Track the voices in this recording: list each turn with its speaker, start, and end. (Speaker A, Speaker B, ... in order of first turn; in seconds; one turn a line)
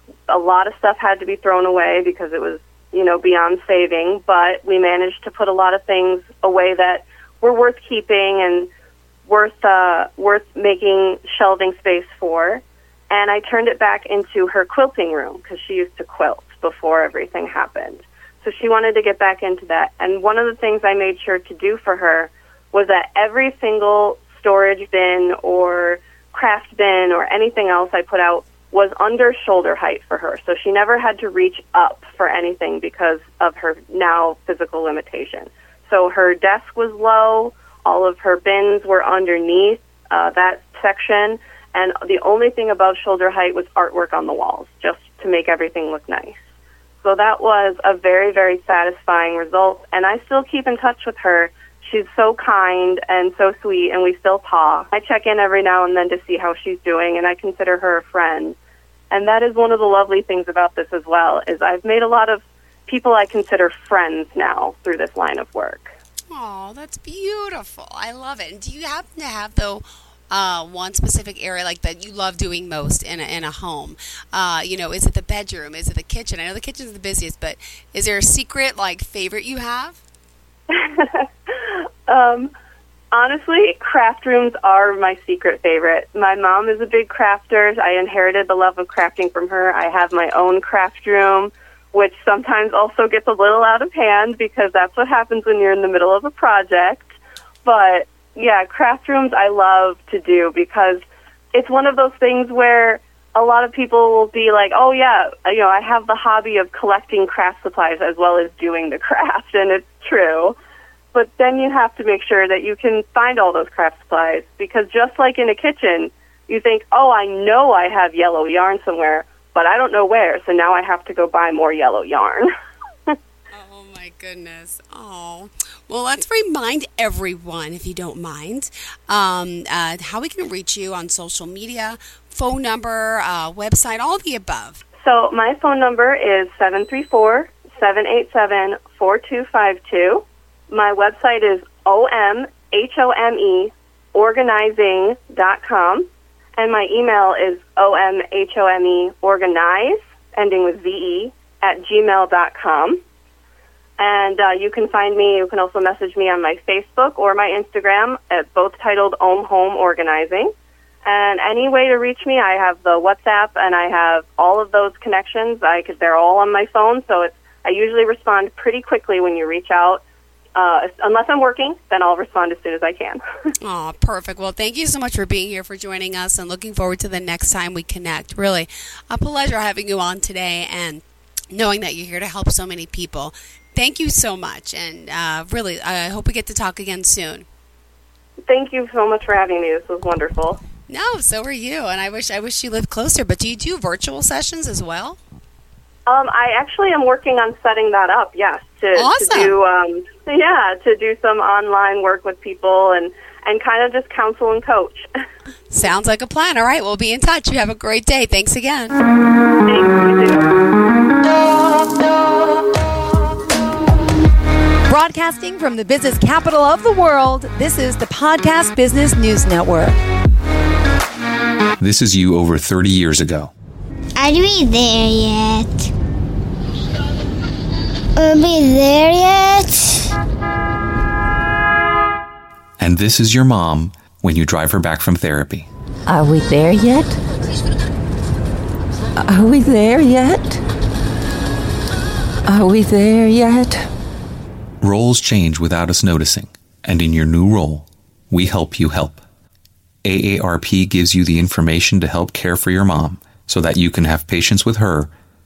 Speaker A: 0.3-8.7
Speaker A: 9.3-46.4
Speaker A: 47.0-58.5
Speaker A: 59.1-65.9
Speaker B: 66.3-80.0
Speaker A: 80.7-82.5
Speaker A: 83.1-101.0
Speaker A: 101.5-110.5
Speaker A: 111.1-122.5
Speaker B: 123.5-134.8
Speaker A: 135.0-153.0
Speaker A: 154.0-160.5
Speaker A: 161.0-170.0
Speaker A: 170.6-173.5
Speaker B: 173.6-187.4
Speaker A: 188.5-190.6
Speaker B: 190.9-195.2
Speaker A: 196.1-205.1
Speaker B: 198.9-199.5
Speaker B: 205.7-209.0
Speaker A: 209.6-210.5
Speaker C: 214.9-219.9
Speaker D: 221.8-223.5
Speaker E: 224.2-225.9
Speaker E: 228.2-230.0
Speaker D: 232.8-235.7
Speaker F: 236.1-237.2
Speaker F: 239.2-240.6
Speaker F: 242.5-243.9
Speaker D: 244.8-249.2
Speaker D: 250.0-255.1